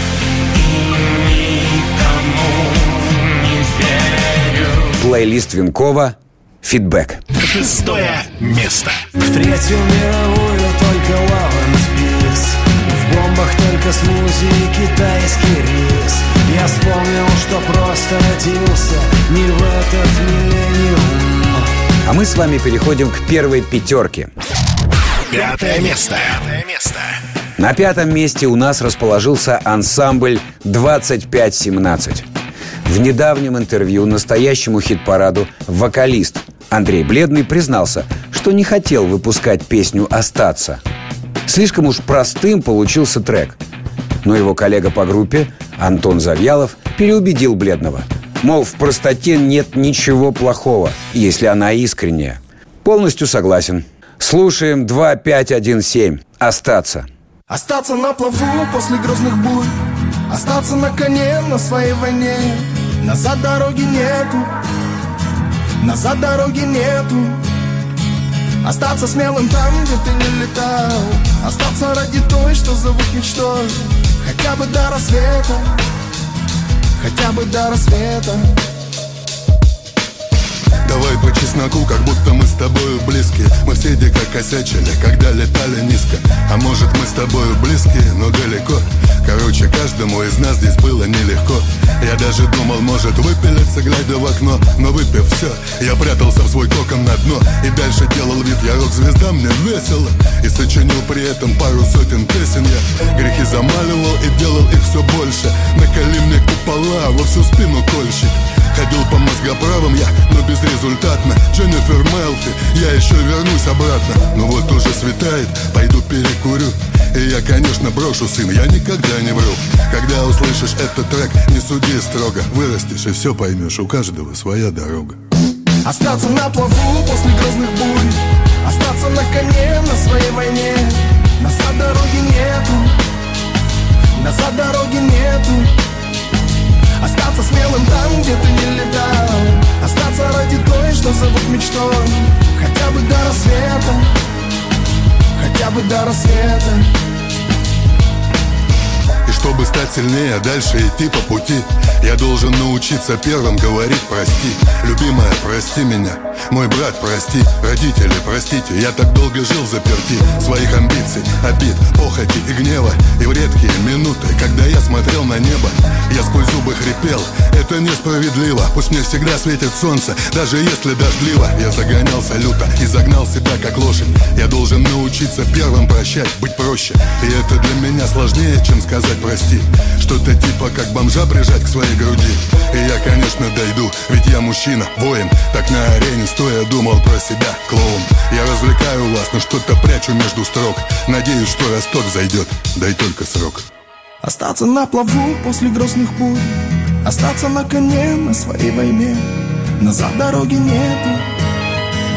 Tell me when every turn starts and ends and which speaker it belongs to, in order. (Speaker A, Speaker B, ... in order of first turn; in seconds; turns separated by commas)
Speaker A: 0.6-4.9, Speaker B: 5.0-7.2, Speaker C: 7.4-9.0, Speaker D: 9.2-21.7, Speaker B: 22.0-24.3, Speaker C: 25.3-27.2, Speaker B: 27.6-32.2, Speaker B: 32.8-40.8, Speaker B: 41.5-43.6, Speaker B: 44.2-57.1, Speaker E: 57.5-59.8, Speaker E: 60.3-64.5, Speaker E: 65.8-67.4, Speaker E: 68.6-75.8, Speaker E: 77.0-78.5, Speaker F: 80.8-125.2, Speaker E: 125.8-132.9, Speaker E: 134.2-135.7, Speaker E: 137.0-144.1, Speaker E: 145.3-146.9, Speaker F: 149.2-193.6, Speaker E: 194.2-201.3